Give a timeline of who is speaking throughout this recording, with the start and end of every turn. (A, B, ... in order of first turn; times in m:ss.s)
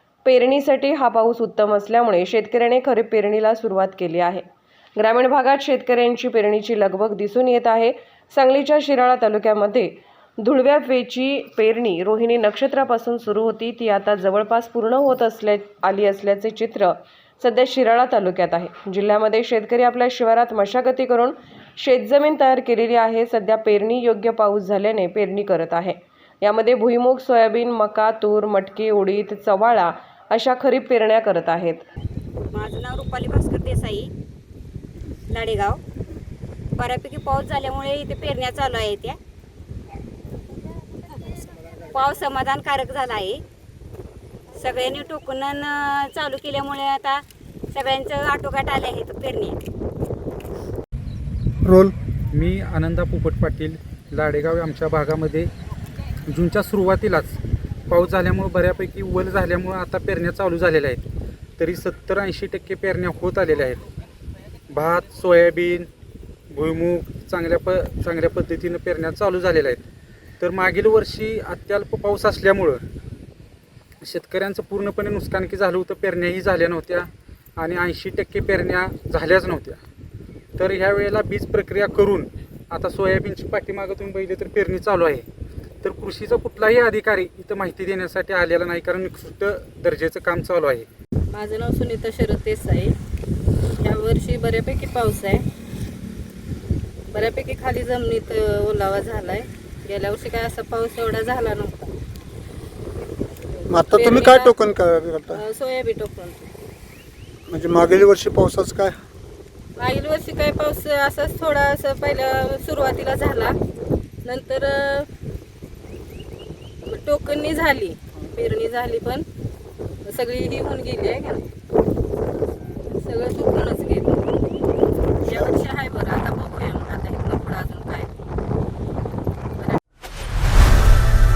0:00.2-0:04.4 A
0:05.0-0:31.8 A
0:32.5-0:34.1 B
0:35.3-0:35.8 B
0:36.8-0:39.2 B
0:41.9-0:43.4 B
0:44.5-0:49.6 B
0:51.6-0:51.9 C
0:52.3-0:55.5 D
0:56.3-0:57.4 D
0:57.9-1:01.0 D
1:01.6-1:03.8 D
1:04.7-1:05.9 D
1:06.5-1:09.8 D
1:10.4-1:12.8 D
1:14.0-1:19.8 D
1:20.6-1:25.2 D
1:25.8-1:30.9 D
1:31.3-1:33.0 E
1:33.7-1:35.4 E
1:37.1-1:41.9 E
1:43.7-1:45.4 C
1:43.9-1:44.5 E
1:45.3-1:46.5 E
1:47.5-1:48.9 C
1:49.8-1:53.5 E
1:54.2-1:55.1 E
1:56.8-1:59.2 E
2:00.0-2:01.5 E
2:02.9-2:04.2 E
2:05.2-2:08.1 E